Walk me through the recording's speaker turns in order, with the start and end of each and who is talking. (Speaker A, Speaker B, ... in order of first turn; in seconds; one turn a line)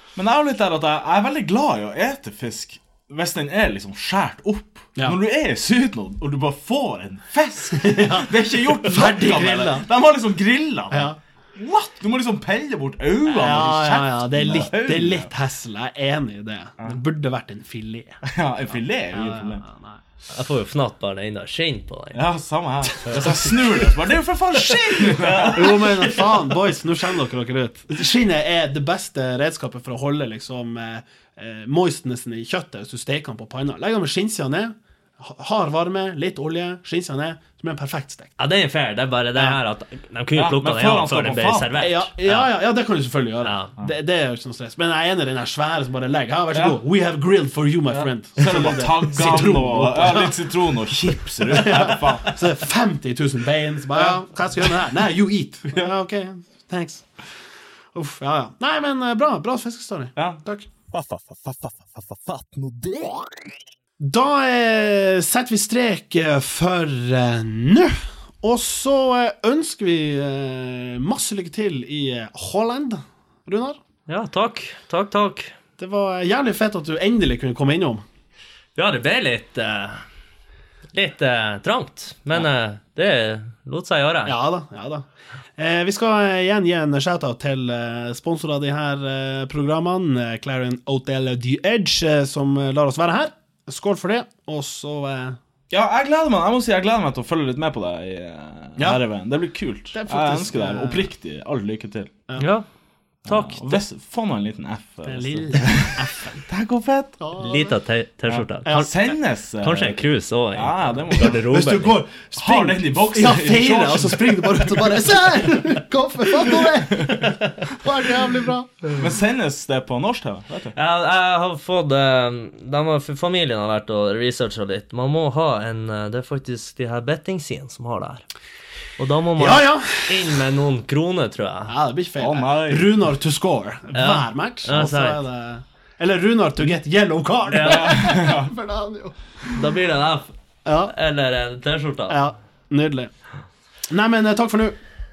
Speaker A: 0.1-15.3
Speaker B: 7.7-9.9
Speaker B: 10.9-11.2
Speaker B: 13.2-18.2
Speaker A: 18.2-19.6
Speaker B: 19.1-20.0
Speaker C: 20.3-22.2
Speaker A: 22.1-25.8
Speaker B: 23.0-23.5
Speaker C: 24.9-26.6
Speaker B: 25.5-38.3
Speaker C: 38.4-42.4
Speaker A: 40.3-41.7
Speaker B: 41.8-50.4
Speaker C: 43.4-43.7
Speaker A: 46.5-46.8
Speaker A: 47.9-52.5
Speaker B: 51.4-57.0
Speaker B: 57.9-60.7
Speaker A: 60.1-60.4
Speaker A: 60.9-63.4
Speaker B: 64.0-73.8
Speaker C: 74.1-75.5
Speaker B: 75.8-78.0
Speaker C: 78.8-80.0
Speaker C: 80.9-84.3
Speaker B: 84.2-85.0
Speaker B: 85.6-95.4
Speaker A: 95.7-102.1
Speaker B: 98.8-99.0
Speaker B: 99.9-101.1
Speaker C: 102.4-102.6
Speaker C: 103.2-103.8
Speaker A: 103.2-107.2
Speaker B: 105.0-106.4
Speaker B: 107.2-107.7
Speaker C: 107.4-112.0
Speaker A: 108.3-110.0
Speaker B: 108.6-108.9
Speaker A: 110.5-111.5
Speaker B: 111.2-118.7
Speaker A: 112.3-115.2
Speaker A: 118.9-120.8
Speaker C: 120.7-128.2
Speaker C: 129.0-131.7
Speaker B: 129.4-130.4
Speaker B: 131.7-139.6
Speaker A: 132.2-133.0
Speaker C: 133.9-135.2
Speaker C: 137.5-138.0
Speaker A: 137.6-138.5
Speaker C: 139.5-140.3
Speaker B: 140.6-140.9
Speaker C: 140.9-142.2
Speaker B: 142.1-143.1
Speaker B: 143.9-144.8